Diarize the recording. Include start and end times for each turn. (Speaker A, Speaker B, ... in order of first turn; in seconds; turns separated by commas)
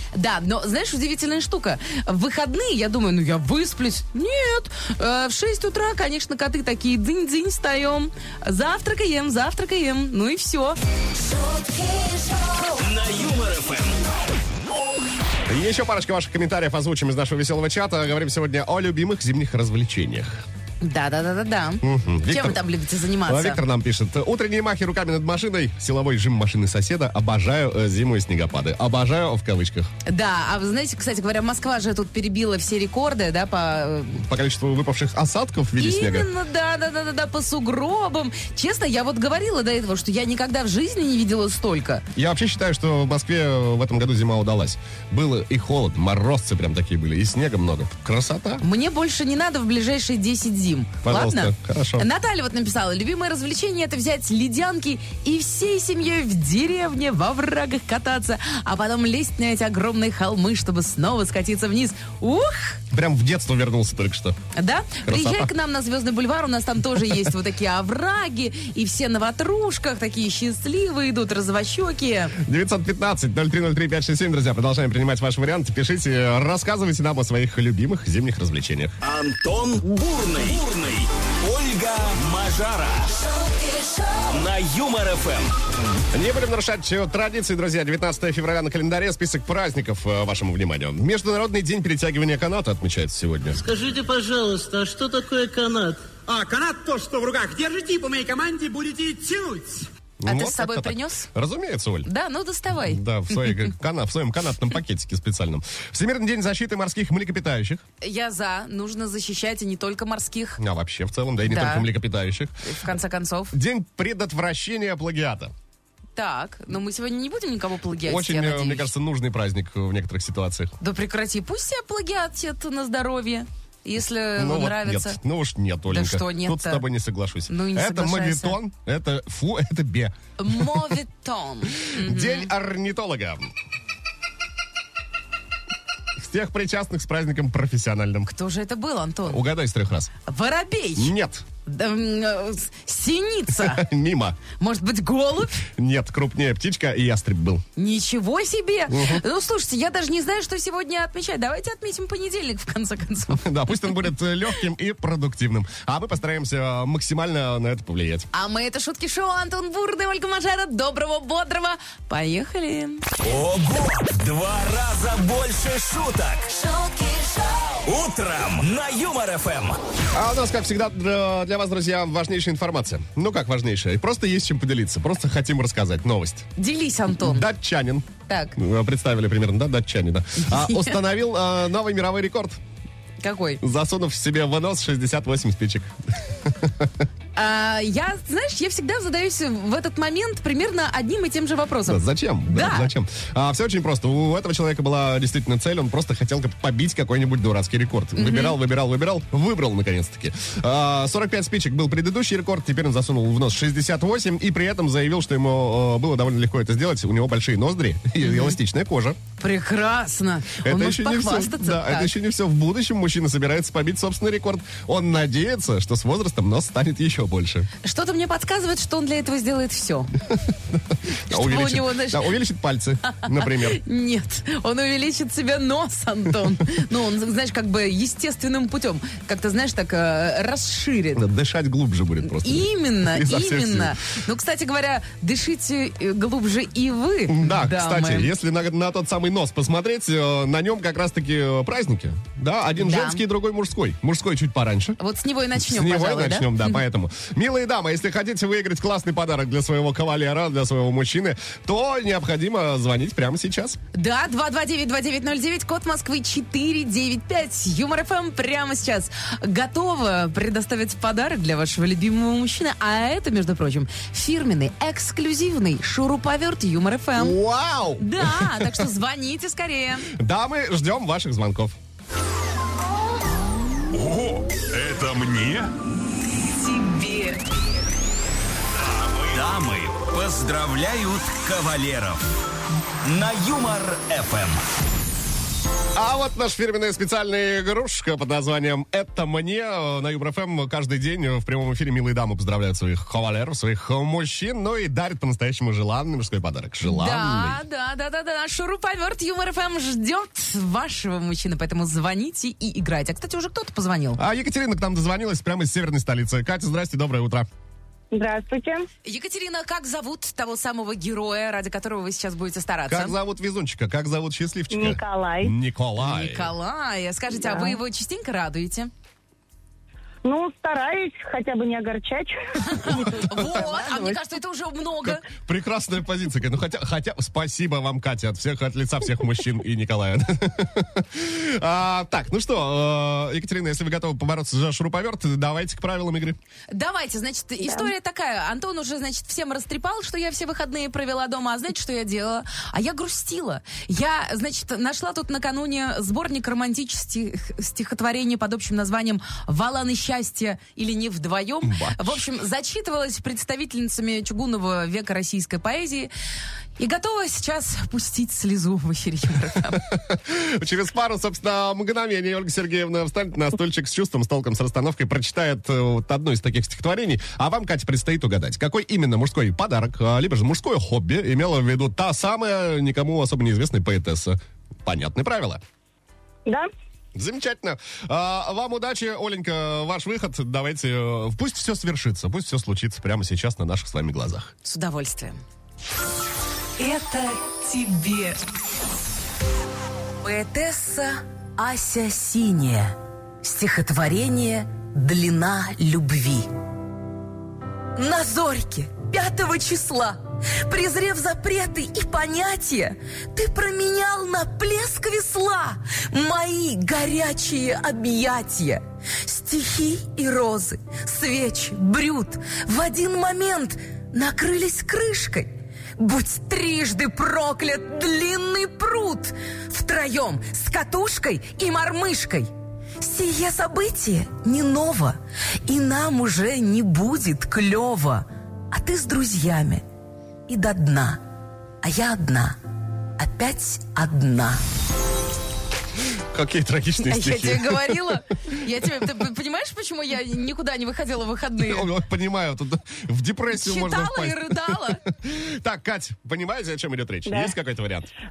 Speaker A: 0.1-10.8, Speaker B: 12.7-14.0, Speaker C: 15.5-20.4, Speaker A: 20.8-23.6, Speaker C: 21.8-22.6, Speaker C: 23.3-29.9, Speaker A: 30.1-34.2, Speaker C: 34.2-36.3, Speaker A: 35.8-42.0, Speaker C: 42.1-48.6, Speaker A: 48.6-62.8, Speaker C: 51.0-52.1, Speaker C: 62.9-64.4, Speaker A: 64.5-72.3, Speaker C: 65.0-65.5, Speaker C: 72.4-79.0, Speaker B: 79.0-83.2, Speaker B: 84.3-85.5, Speaker C: 86.1-93.6, Speaker D: 93.6-96.2, Speaker E: 96.2-99.9, Speaker C: 100.2-102.1, Speaker A: 100.3-101.3, Speaker A: 102.0-103.5, Speaker C: 102.8-107.8, Speaker A: 108.0-110.6, Speaker C: 110.6-112.5, Speaker A: 111.5-111.9, Speaker A: 112.6-113.5, Speaker C: 113.5-115.5, Speaker A: 116.2-118.9, Speaker C: 118.0-120.7, Speaker A: 120.8-125.2, Speaker C: 124.3-130.8, Speaker A: 125.9-126.8, Speaker A: 127.5-128.6, Speaker A: 130.4-132.5, Speaker C: 131.8-133.5, Speaker C: 136.2-138.3, Speaker A: 138.3-139.4, Speaker C: 139.3-140.1, Speaker A: 140.3-141.1, Speaker C: 141.0-141.4, Speaker A: 141.7-143.9, Speaker C: 143.6-144.4, Speaker A: 144.6-145.7, Speaker C: 145.8-147.6, Speaker A: 147.8-153.9, Speaker C: 148.9-149.2, Speaker C: 153.4-158.3, Speaker A: 158.3-163.0, Speaker B: 163.2-166.6, Speaker A: 166.7-167.3, Speaker B: 167.8-169.8, Speaker C: 170.1-176.5, Speaker A: 176.6-177.5, Speaker C: 177.1-182.6, Speaker A: 178.3-178.6, Speaker A: 180.4-181.0, Speaker A: 183.2-183.6, Speaker C: 183.6-185.9, Speaker C: 186.4-186.9, Speaker A: 187.3-192.9, Speaker C: 191.9-209.2, Speaker A: 198.2-198.6, Speaker A: 208.2-208.6, Speaker A: 209.4-212.1, Speaker C: 210.6-217.7, Speaker A: 217.8-220.2, Speaker C: 220.7-223.8, Speaker A: 221.3-222.3, Speaker A: 223.2-231.2, Speaker C: 231.2-234.0, Speaker A: 232.2-238.3, Speaker C: 237.3-245.0, Speaker A: 242.8-243.2, Speaker A: 245.0-246.8, Speaker C: 245.6-253.8, Speaker A: 253.9-267.4, Speaker C: 267.1-268.9, Speaker A: 268.0-270.1, Speaker C: 270.1-271.8, Speaker B: 273.9-275.7, Speaker A: 276.4-277.4, Speaker B: 279.0-282.2, Speaker B: 283.0-284.6, Speaker C: 285.9-297.6, Speaker A: 296.9-304.2, Speaker C: 304.2-307.5, Speaker F: 308.1-308.9, Speaker A: 309.1-313.2, Speaker C: 312.9-316.5, Speaker F: 314.7-315.5, Speaker A: 316.0-318.9, Speaker F: 317.4-317.8, Speaker F: 320.2-324.2, Speaker A: 322.6-325.3, Speaker C: 325.0-336.4, Speaker A: 336.7-356.1, Speaker C: 351.6-352.2, Speaker A: 356.8-359.9, Speaker C: 359.7-375.6, Speaker C: 377.1-384.5, Speaker A: 384.6-385.4, Speaker A: 386.8-388.4, Speaker A: 390.2-396.5, Speaker A: 398.0-429.8, Speaker A: 430.5-431.2, Speaker A: 431.8-432.6, Speaker A: 433.2-434.6, Speaker C: 436.3-438.1, Speaker A: 437.0-441.9, Speaker C: 441.6-448.1, Speaker A: 443.5-445.0, Speaker F: 447.3-447.5